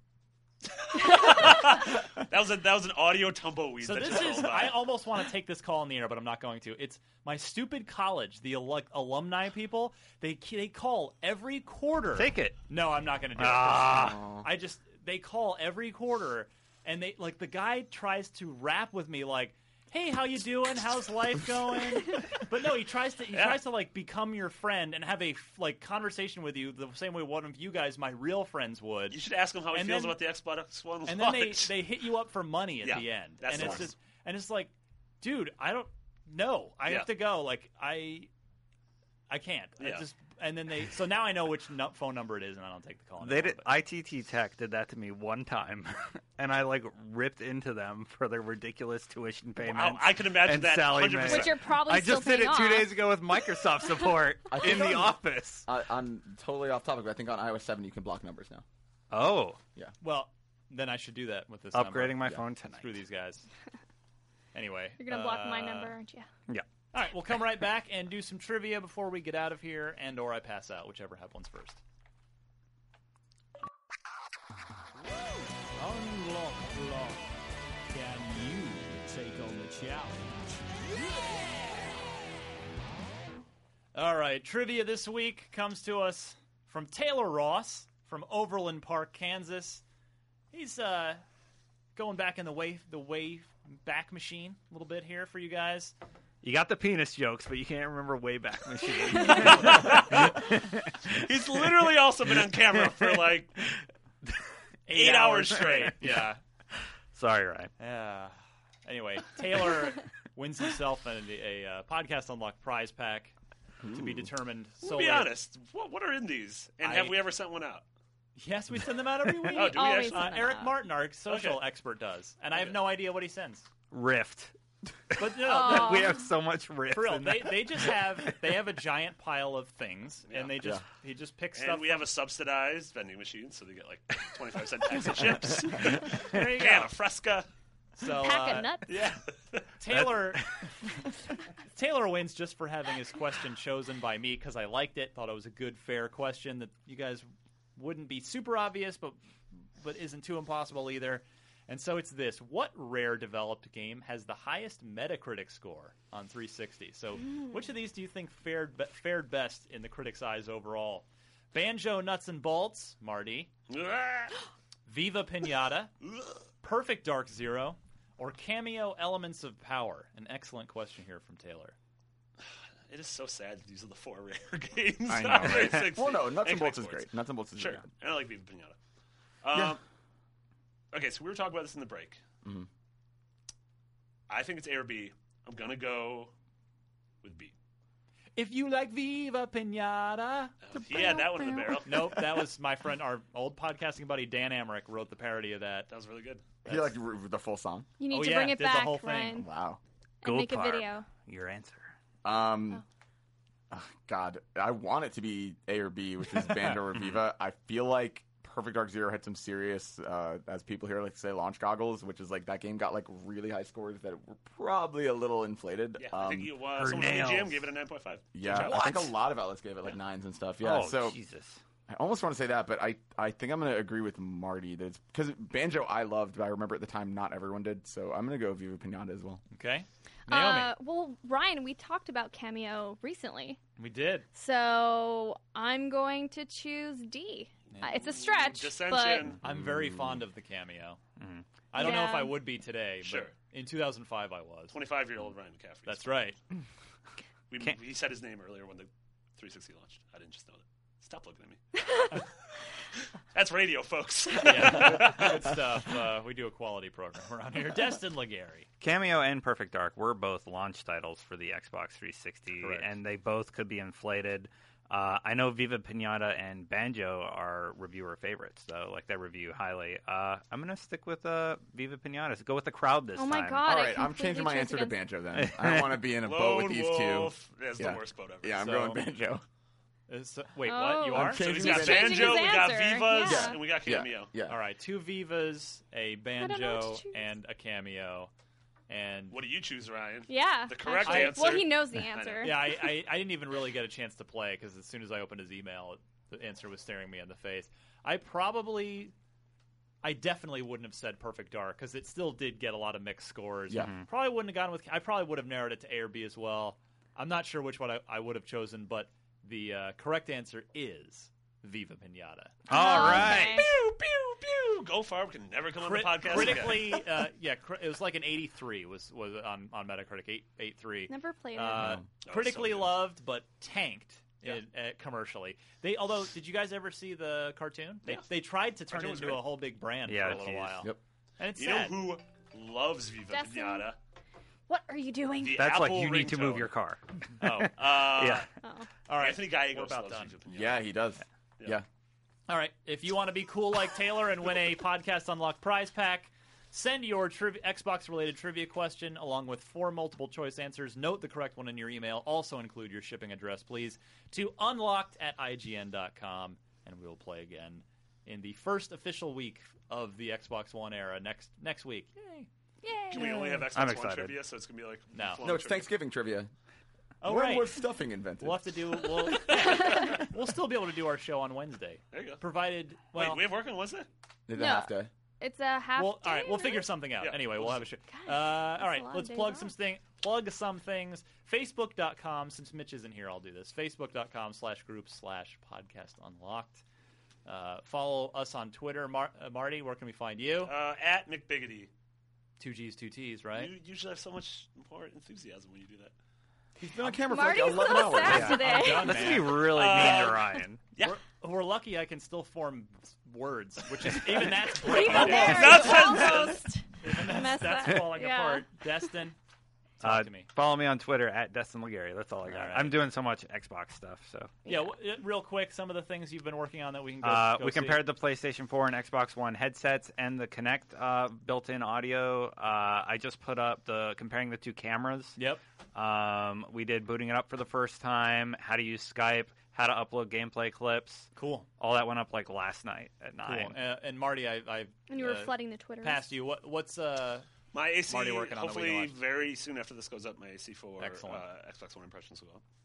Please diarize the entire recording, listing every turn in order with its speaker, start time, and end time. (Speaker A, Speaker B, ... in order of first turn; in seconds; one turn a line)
Speaker A: 0.8-4.9
Speaker B: 3.8-29.2
Speaker C: 12.1-12.6
Speaker C: 13.3-14.2
Speaker D: 13.9-14.4
Speaker A: 23.3-23.6
Speaker A: 29.1-31.7
Speaker B: 29.7-30.2
Speaker B: 31.1-38.3
Speaker A: 32.8-33.9
Speaker D: 33.5-33.8
Speaker B: 39.3-43.7
Speaker A: 39.8-40.0
Speaker C: 43.2-55.7
Speaker A: 49.6-51.6
Speaker E: 51.2-52.9
Speaker D: 54.5-58.6
Speaker C: 59.1-59.6
Speaker B: 60.0-63.5
Speaker C: 61.7-63.0
Speaker B: 64.5-66.0
Speaker E: 65.0-66.3
Speaker B: 66.9-71.8
Speaker F: 75.8-77.1
Speaker B: 77.9-79.0
Speaker F: 78.9-80.3
Speaker B: 83.9-89.8
Speaker B: 90.5-91.2
Speaker B: 92.0-95.9
Speaker C: 96.4-101.1
Speaker A: 99.5-100.3
Speaker A: 101.1-103.5
Speaker B: 104.9-106.4
Speaker A: 104.9-106.2
Speaker C: 107.1-107.7
Speaker B: 107.8-108.3
Speaker B: 108.8-113.3
Speaker D: 113.8-114.3
Speaker B: 113.9-115.3
Speaker A: 114.8-117.8
Speaker B: 116.8-117.2
Speaker B: 118.4-123.7
Speaker E: 119.5-120.8
Speaker A: 119.5-120.4
Speaker A: 121.2-121.6
Speaker A: 122.5-122.8
Speaker C: 123.9-124.5
Speaker C: 125.1-128.3
Speaker B: 125.2-126.2
Speaker E: 125.5-126.2
Speaker B: 126.9-132.1
Speaker A: 130.3-130.6
Speaker A: 131.6-137.5
Speaker B: 136.3-136.9
Speaker B: 137.9-138.8
Speaker E: 138.0-139.0
Speaker A: 138.9-139.6
Speaker B: 139.8-140.7
Speaker C: 139.9-140.4
Speaker B: 141.7-149.2
Speaker B: 149.8-163.5
Speaker A: 163.7-164.3
Speaker B: 164.8-165.9
Speaker B: 166.6-171.8
Speaker A: 172.9-178.8
Speaker D: 175.1-177.8
Speaker A: 179.4-179.8
Speaker A: 180.9-182.2
Speaker A: 184.3-186.3
Speaker A: 187.2-187.5
Speaker B: 188.3-190.5
Speaker A: 190.6-192.2
Speaker E: 190.7-192.0
Speaker B: 191.8-195.9
Speaker A: 195.9-196.4
Speaker D: 196.6-197.9
Speaker B: 196.7-196.9
Speaker E: 198.0-199.5
Speaker B: 198.1-199.4
Speaker D: 199.3-199.8
Speaker E: 200.2-201.1
Speaker C: 200.2-201.9
Speaker D: 202.2-202.8
Speaker D: 203.7-216.6
Speaker A: 216.0-219.1
Speaker C: 216.8-217.7
Speaker D: 218.3-221.2
Speaker C: 218.5-219.1
Speaker C: 220.6-221.6
Speaker D: 221.9-229.4
Speaker B: 229.5-230.7
Speaker E: 230.3-233.6
Speaker B: 233.8-234.3
Speaker E: 234.3-239.4
Speaker B: 237.7-238.2
Speaker A: 238.2-239.4
Speaker B: 239.4-241.0
Speaker D: 239.5-240.2
Speaker C: 241.2-241.4
Speaker E: 241.7-242.4
Speaker B: 241.7-244.8
Speaker A: 243.0-243.3
Speaker A: 244.7-246.3
Speaker B: 245.9-246.4
Speaker A: 247.5-251.6
Speaker A: 253.3-255.4
Speaker B: 254.4-258.7
Speaker C: 258.8-273.7
Speaker B: 262.6-262.9
Speaker E: 273.1-275.0
Speaker D: 273.6-279.4
Speaker C: 275.3-276.0
Speaker A: 276.2-278.6
Speaker B: 278.5-279.0
Speaker B: 280.1-282.2
Speaker E: 280.6-283.7
Speaker D: 281.1-282.5
Speaker A: 281.2-284.3
Speaker D: 283.2-284.6
Speaker B: 284.5-288.3
Speaker E: 286.4-287.3
Speaker B: 288.9-289.4
Speaker A: 289.3-292.6
Speaker E: 290.3-292.9
Speaker B: 291.0-291.7
Speaker B: 292.4-299.1
Speaker B: 300.0-313.3
Speaker D: 303.7-303.9
Speaker C: 303.7-304.0
Speaker E: 312.7-313.7
Speaker C: 312.7-313.6
Speaker A: 313.3-317.1
Speaker B: 315.8-332.2
Speaker E: 321.1-321.9
Speaker A: 322.2-323.1
Speaker A: 328.9-329.5
Speaker C: 330.0-330.9
Speaker A: 331.6-334.0
Speaker E: 333.3-333.9
Speaker E: 334.7-335.6
Speaker A: 335.4-336.7
Speaker C: 335.5-338.4
Speaker B: 337.4-338.5
Speaker A: 337.8-338.4
Speaker E: 338.6-338.9
Speaker B: 339.1-340.4
Speaker A: 339.2-340.9
Speaker D: 340.5-341.8
Speaker B: 342.5-362.5
Speaker E: 362.8-363.7
Speaker A: 363.1-365.9
Speaker C: 363.7-364.4
Speaker B: 365.1-365.6
Speaker D: 365.4-366.5
Speaker B: 367.2-373.4
Speaker D: 367.2-368.6
Speaker A: 369.3-369.9
Speaker E: 369.9-370.1
Speaker A: 372.1-372.4
Speaker A: 373.1-374.1
Speaker D: 374.5-375.1
Speaker E: 374.5-376.9
Speaker B: 376.0-386.8
Speaker A: 377.2-377.9
Speaker E: 378.1-379.7
Speaker B: 387.4-390.7
Speaker A: 390.6-391.9
Speaker B: 392.6-393.7
Speaker A: 393.5-396.1
Speaker D: 396.8-398.7
Speaker E: 397.3-399.4
Speaker B: 397.7-400.3
Speaker C: 398.2-400.8
Speaker A: 399.3-401.1
Speaker B: 401.0-406.5
Speaker E: 404.8-408.7
Speaker A: 404.8-406.6
Speaker B: 407.0-409.4
Speaker B: 410.0-410.5
Speaker C: 410.0-414.6
Speaker B: 412.5-413.0
Speaker B: 414.6-418.0
Speaker C: 417.2-425.4
Speaker C: 425.9-433.8
Speaker B: 431.4-431.7
Speaker B: 433.4-437.5
Speaker E: 435.1-436.3
Speaker A: 437.7-442.6
Speaker B: 438.1-439.2
Speaker B: 441.0-441.4